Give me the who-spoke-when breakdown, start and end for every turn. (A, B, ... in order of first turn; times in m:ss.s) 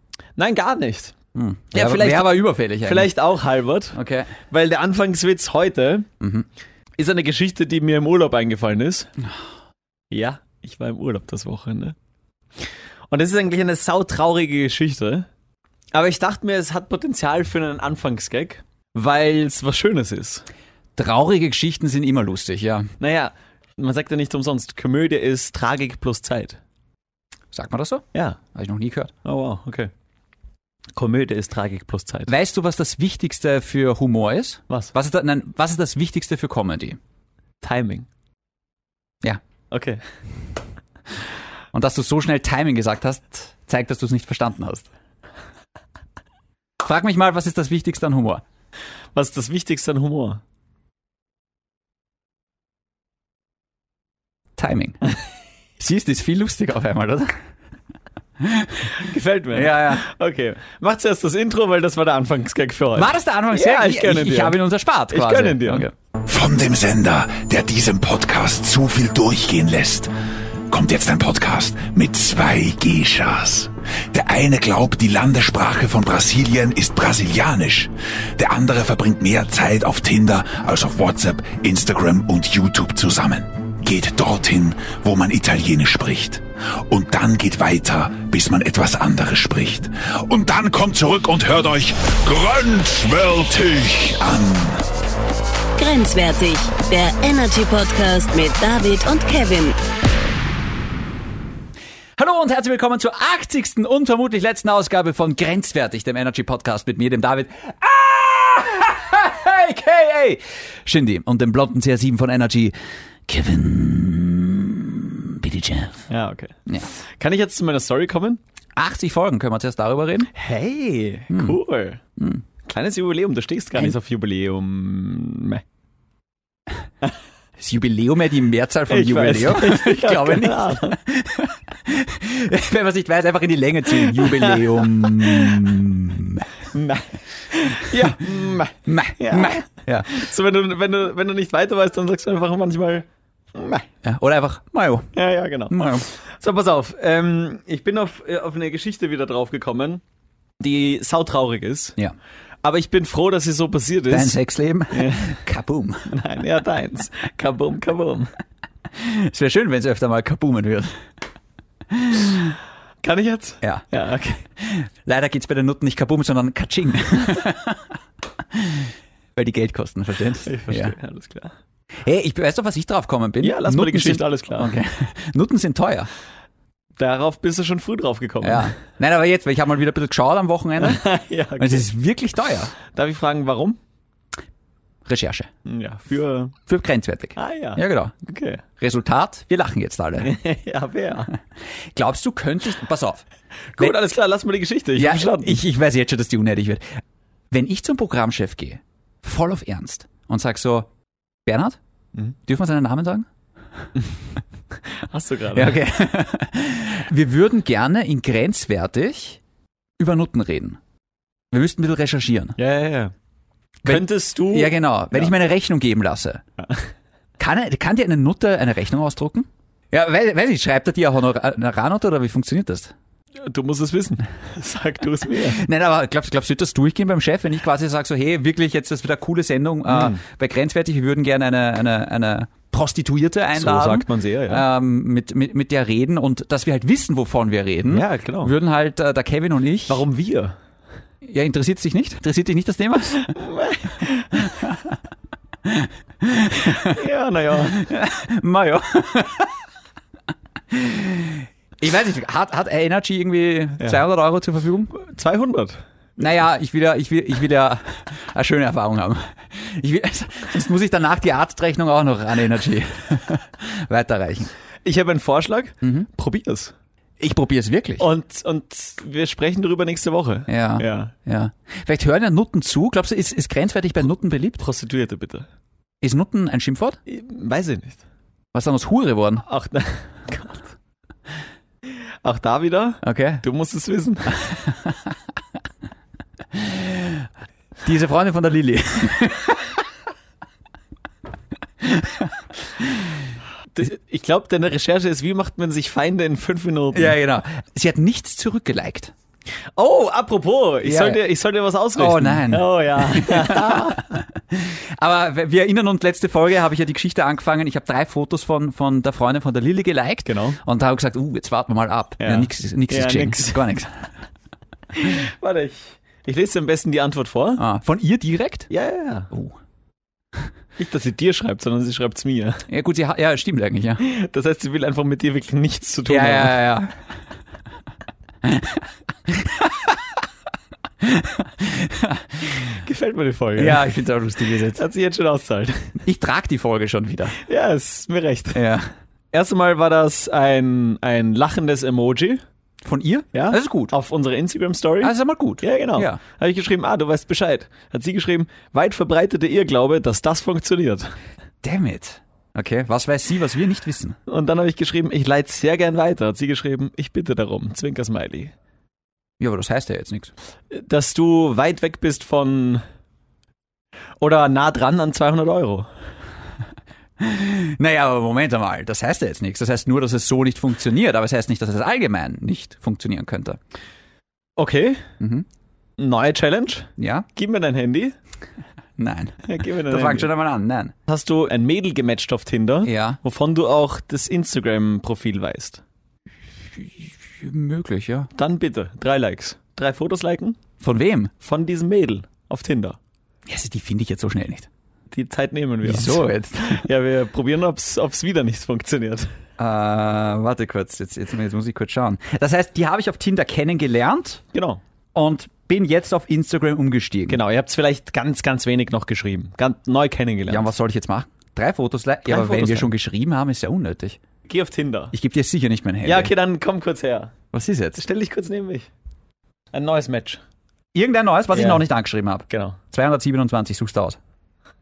0:00.4-0:01.2 A
0:01.4-0:03.1 B
0:01.7-0:06.1 A
0:03.9-0:04.3 B
0:06.2-0:06.5 B
0:07.0-0:09.1 A
0:10.1-0:12.0 A
0:13.1-0:15.3 A
0:15.9-0:20.5 A
0:21.0-0:22.9 B
0:23.0-0:26.6 A
0:27.5-0:29.1 B
0:28.1-0:28.4 A
0:29.2-0:29.9 A
0:31.0-0:32.3 A
0:32.3-0:37.0 B
0:37.6-0:38.1 A
0:39.7-0:40.0 A
0:41.7-0:44.9 B
0:46.8-0:48.4 B
0:49.2-0:50.4 A
0:54.6-0:55.0 B
0:55.8-0:57.4 B
0:58.4-0:59.0 B
0:59.0-1:04.6 A
0:59.5-1:00.0 B
1:03.0-1:05.9 B
1:05.1-1:05.9 A
1:06.3-1:10.1 C
1:10.7-1:34.8 C
1:35.8-1:39.8 D
1:42.2-1:52.8 B
1:53.3-1:56.1 B
1:56.1-1:58.4 A
1:58.8-2:00.3 B
2:00.3-2:02.0 A
2:01.3-2:01.6 B
2:02.2-2:02.4 B
2:02.6-2:05.6 A
2:07.6-2:16.5 B
2:08.9-2:11.0 A
2:14.2-2:15.6 A
2:16.7-2:23.9 A
2:17.9-2:18.3 B
2:18.8-2:20.2 B
2:24.0-2:25.2 B
2:25.1-2:30.0 A
2:25.7-2:26.1 B
2:30.6-2:32.0 A
2:32.6-2:34.4 A
2:34.1-2:36.1 B
2:34.9-2:35.4 A
2:36.1-2:38.3 A
2:38.9-2:41.0 B
2:41.9-2:42.6 B
2:43.0-2:44.5 A
2:44.6-2:48.0 B
2:48.5-2:51.0 B
2:50.4-2:51.5 A
2:52.0-2:56.1 B
2:53.4-2:54.8 A
2:57.0-2:58.8 A
2:58.4-3:01.1 B
3:00.8-3:01.9 A
3:01.6-3:02.7 B
3:02.9-3:03.8 A
3:05.1-3:05.5 B
3:05.6-3:06.6 A
3:06.7-3:08.1 B
3:07.4-3:08.6 A
3:08.8-3:10.3 B
3:10.2-3:11.3 A
3:11.7-3:13.2 B
3:13.8-3:15.6 A
3:15.0-3:20.9 B
3:21.5-3:21.8 B
3:22.5-3:23.3 B
3:25.0-3:25.8 A
3:25.5-3:29.4 B
3:30.0-3:30.8 B
3:31.5-3:32.6 B
3:32.6-3:33.1 A
3:33.8-3:35.3 A
3:33.8-3:36.4 B
3:36.6-3:36.9 A
3:37.4-3:42.9 B
3:43.4-3:45.6 A
3:45.3-4:00.0 B
3:49.9-3:50.2 A
3:53.5-3:54.6 A
3:57.9-3:58.5 A
3:59.9-4:00.6 A
4:01.2-4:03.3 B
4:03.2-4:04.6 A
4:04.4-4:05.0 B
4:05.6-4:07.0 B
4:06.8-4:07.8 A
4:07.7-4:09.6 B
4:10.7-4:15.0 B
4:15.0-4:15.8 A
4:16.2-4:24.5 B
4:24.8-4:26.7 A
4:25.8-4:26.1 B
4:27.2-4:28.1 B
4:28.0-4:31.1 A
4:30.5-4:34.6 B
4:34.6-4:35.5 A
4:36.0-4:37.0 B
4:37.1-4:38.0 A
4:38.5-4:39.4 B
4:39.4-4:40.7 A
4:42.2-4:44.6 A
4:43.0-4:43.4 B
4:44.7-4:45.0 B
4:46.5-4:47.3 B
4:47.8-4:49.8 B
4:51.8-4:53.2 B
4:53.7-4:57.2 A
4:56.9-4:59.1 B
4:59.8-5:04.2 A
5:00.8-5:01.2 B
5:02.0-5:14.1 B
5:10.3-5:10.6 A
5:12.2-5:13.6 A
5:14.9-5:17.6 A
5:17.6-5:18.7 B
5:18.7-5:19.3 A
5:19.3-5:19.6 B
5:20.8-5:22.7 A
5:22.7-5:24.0 B
5:24.0-5:26.6 A
5:26.1-5:27.0 B
5:28.4-5:30.0 B
5:31.0-5:32.8 B
5:32.8-5:33.8 A
5:33.6-5:34.8 B
5:34.7-5:36.0 A
5:36.0-5:37.4 B
5:37.4-5:38.8 A
5:38.5-5:38.9 B
5:39.3-5:42.4 A
5:42.8-5:43.9 B
5:43.3-5:51.2 A
5:45.0-5:46.2 B
5:51.6-5:54.2 B
5:54.3-5:58.5 A
5:59.4-6:00.3 B
6:00.7-6:02.8 A
6:04.2-6:05.9 A
6:07.2-6:13.6 B
6:14.6-6:15.1 A
6:15.2-6:15.5 B
6:16.0-6:18.2 A
6:17.0-6:17.3 B
6:19.0-6:20.9 B
6:19.4-6:20.3 A
6:21.1-6:25.8 A
6:22.8-6:23.2 B
6:26.7-6:28.3 B
6:28.4-6:30.6 A
6:30.8-6:31.3 B
6:31.4-6:33.0 A
6:33.5-6:34.7 B
6:35.1-6:39.3 A
6:35.8-6:36.9 B
6:39.6-6:44.4 B
6:44.5-6:44.8 A
6:45.2-6:47.4 B
6:47.3-6:50.7 A
6:50.5-6:54.2 B
6:52.3-6:52.9 A
6:54.5-6:55.1 A
6:55.1-6:56.3 B
6:56.0-6:57.4 A
6:57.5-6:58.0 B
6:58.0-6:58.9 A
6:59.7-7:00.4 A
7:00.9-7:04.2 B
7:01.5-7:01.8 A
7:02.5-7:02.8 A